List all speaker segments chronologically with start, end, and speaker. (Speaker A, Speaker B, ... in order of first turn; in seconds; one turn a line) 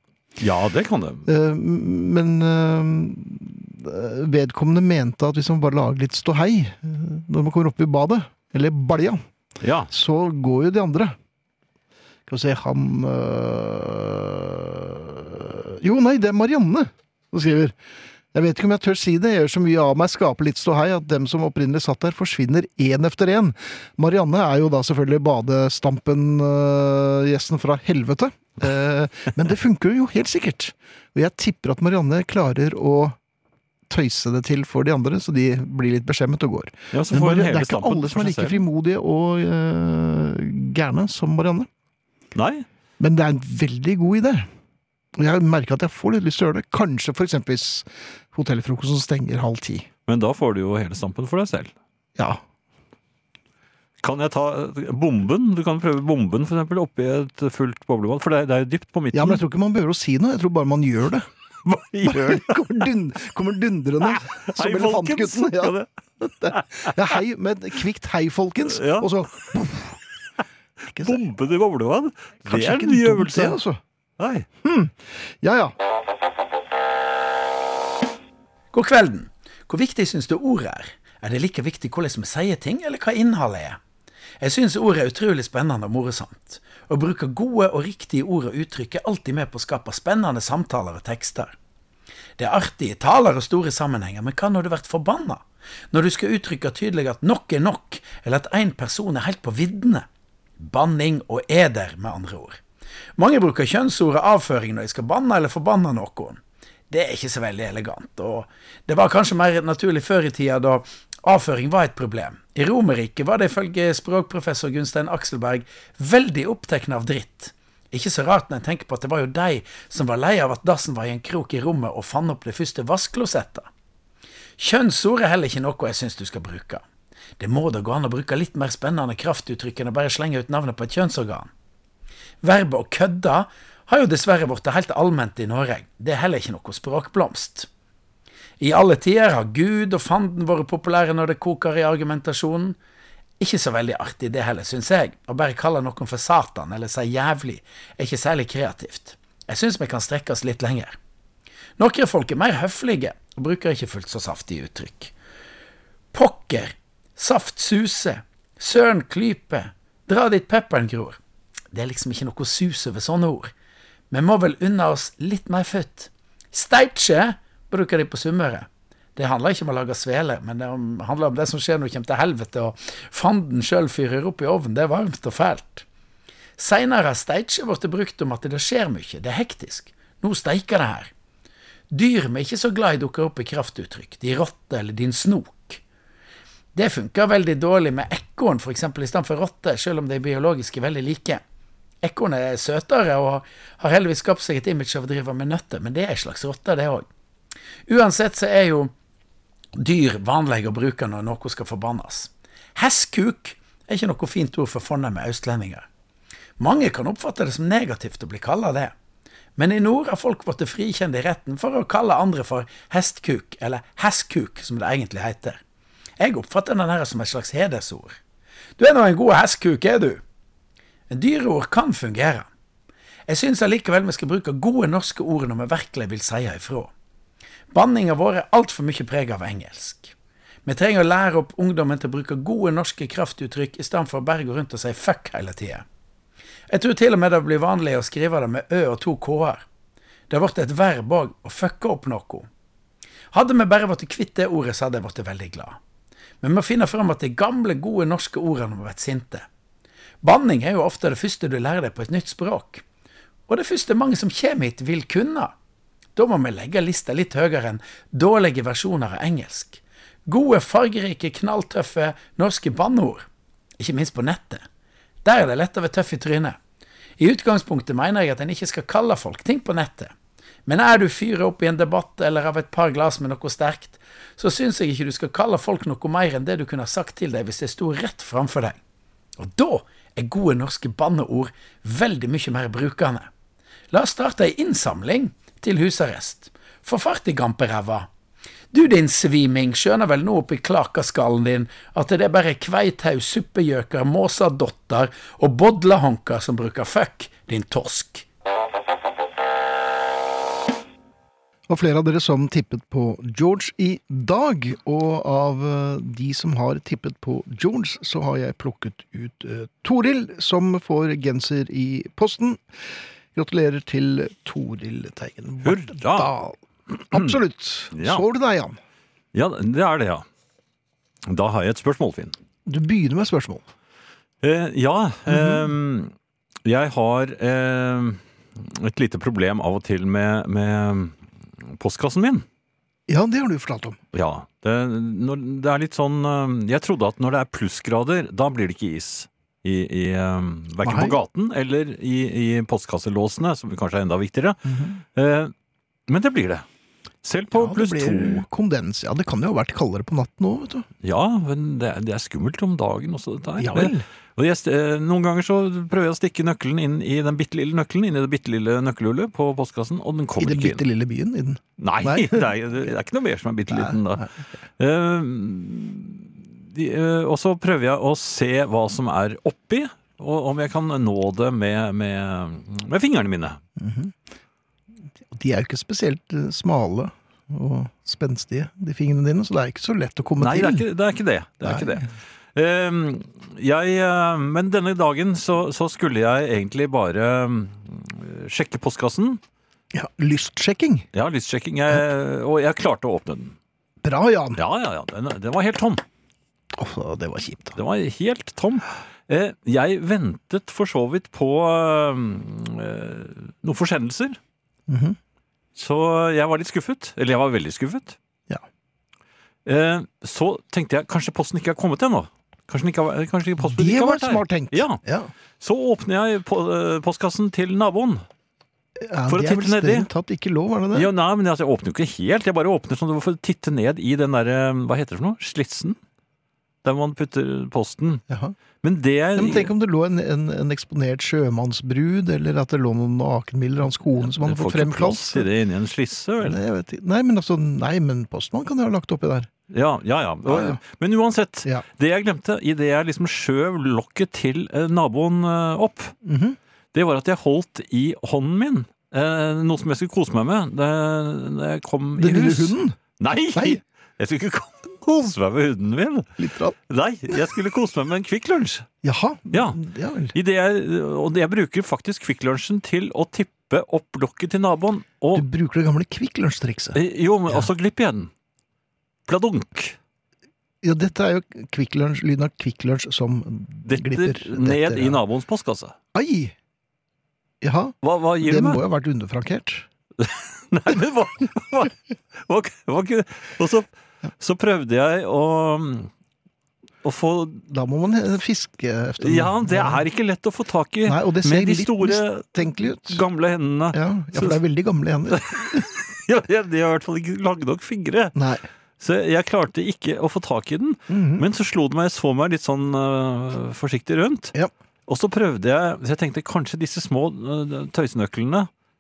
Speaker A: 0.4-1.3
Speaker B: 1.2-9.2
Speaker A: 9.6-9.9
Speaker B: 9.9-11.1
Speaker B: 12.3-17.8
Speaker B: 18.3-33.2
Speaker B: 33.9-41.7
Speaker A: 36.9-38.6
Speaker A: 42.3-42.6
Speaker B: 43.0-44.5
Speaker B: 45.1-49.9
Speaker A: 50.1-51.7
Speaker A: 54.0-59.4
Speaker B: 59.1-61.3
Speaker A: 61.6-62.7
Speaker B: 62.0-70.0
Speaker A: 64.0-65.9
Speaker A: 66.5-67.0
Speaker A: 68.7-69.1
Speaker B: 70.9-71.2
Speaker A: 71.0-73.6
Speaker B: 72.5-73.8
Speaker A: 74.2-74.5
Speaker B: 74.6-75.7
Speaker C: 78.7-83.8
Speaker C: 84.4-91.5
Speaker C: 92.4-100.0
Speaker C: 100.6-102.6
Speaker C: 103.2-123.7
Speaker C: 124.6-126.8
Speaker C: 127.4-131.5
Speaker C: 132.4-137.7
Speaker C: 138.6-142.8
Speaker C: 143.4-151.0
Speaker C: 151.8-155.1
Speaker C: 156.1-161.2
Speaker C: 161.7-163.5
Speaker C: 164.1-175.8
Speaker C: 176.6-181.1
Speaker C: 181.9-185.8
Speaker C: 186.7-191.4
Speaker C: 192.0-197.1
Speaker C: 197.9-198.9
Speaker C: 199.8-205.9
Speaker C: 206.6-208.9
Speaker C: 209.6-215.6
Speaker C: 216.2-218.2
Speaker C: 218.8-220.2
Speaker C: 221.1-222.5
Speaker C: 223.3-226.9
Speaker C: 227.7-230.1
Speaker C: 230.6-235.8
Speaker C: 236.7-239.6
Speaker C: 240.3-242.5
Speaker C: 243.3-245.8
Speaker C: 246.4-249.4
Speaker C: 250.2-252.8
Speaker C: 253.5-255.5
Speaker C: 256.1-263.2
Speaker C: 263.8-264.6
Speaker C: 265.2-266.6
Speaker C: 267.2-270.1
Speaker C: 270.6-278.8
Speaker C: 279.4-283.3
Speaker C: 283.9-288.1
Speaker C: 288.7-298.2
Speaker B: 301.7-318.8
Speaker A: 315.6-316.3
Speaker A: 317.9-318.2
Speaker A: 319.3-320.2
Speaker A: 321.2-322.3
Speaker B: 322.6-323.6
Speaker A: 324.4-326.1
Speaker B: 325.3-325.7
Speaker A: 326.6-332.4
Speaker B: 333.1-334.0
Speaker A: 334.1-344.6
Speaker B: 340.8-341.2
Speaker B: 344.6-345.0
Speaker A: 345.1-345.5
Speaker A: 346.1-346.6
Speaker A: 347.2-348.4
Speaker B: 347.5-350.9
Speaker A: 351.0-360.8
Speaker B: 353.6-354.0
Speaker B: 360.4-362.5
Speaker A: 361.8-364.3
Speaker B: 363.7-364.3
Speaker A: 364.8-373.6
Speaker B: 373.8-374.1
Speaker B: 375.3-380.8
Speaker A: 380.4-389.4
Speaker B: 381.6-382.0
Speaker B: 389.9-391.1
Speaker A: 391.1-393.5
Speaker B: 394.0-394.6
Speaker A: 394.6-396.0
Speaker B: 396.7-397.8
Speaker A: 397.8-404.4
Speaker B: 404.9-405.2
Speaker A: 405.8-408.1
Speaker A: 409.6-415.0
Speaker B: 413.6-415.3
Speaker A: 415.6-418.2
Speaker B: 419.0-421.1
Speaker A: 419.3-420.1
Speaker A: 420.9-426.0
Speaker A: 426.8-428.2
Speaker B: 428.3-428.5
Speaker A: 428.8-429.7
Speaker B: 429.4-435.5
Speaker A: 434.2-436.6
Speaker B: 436.4-439.5
Speaker A: 439.7-446.1
Speaker B: 440.4-440.8
Speaker B: 446.2-446.6
Speaker A: 446.9-456.3
Speaker B: 452.2-453.0
Speaker B: 453.5-453.8
Speaker B: 456.4-456.8
Speaker A: 456.9-458.9
Speaker B: 459.0-460.3
Speaker A: 459.5-459.8
Speaker A: 460.3-465.4
Speaker B: 465.3-467.7
Speaker A: 466.9-468.3
Speaker A: 469.3-470.0
Speaker B: 470.8-475.2
Speaker A: 473.9-475.9
Speaker B: 476.1-476.5
Speaker B: 477.6-479.9
Speaker A: 478.0-478.8
Speaker A: 480.2-486.1
Speaker A: 487.0-487.7
Speaker B: 487.7-490.0
Speaker A: 489.2-494.6
Speaker B: 491.1-493.2
Speaker B: 493.9-495.9
Speaker A: 495.3-498.4
Speaker B: 498.3-498.6
Speaker A: 499.0-504.5
Speaker B: 501.1-501.4
Speaker A: 505.1-508.7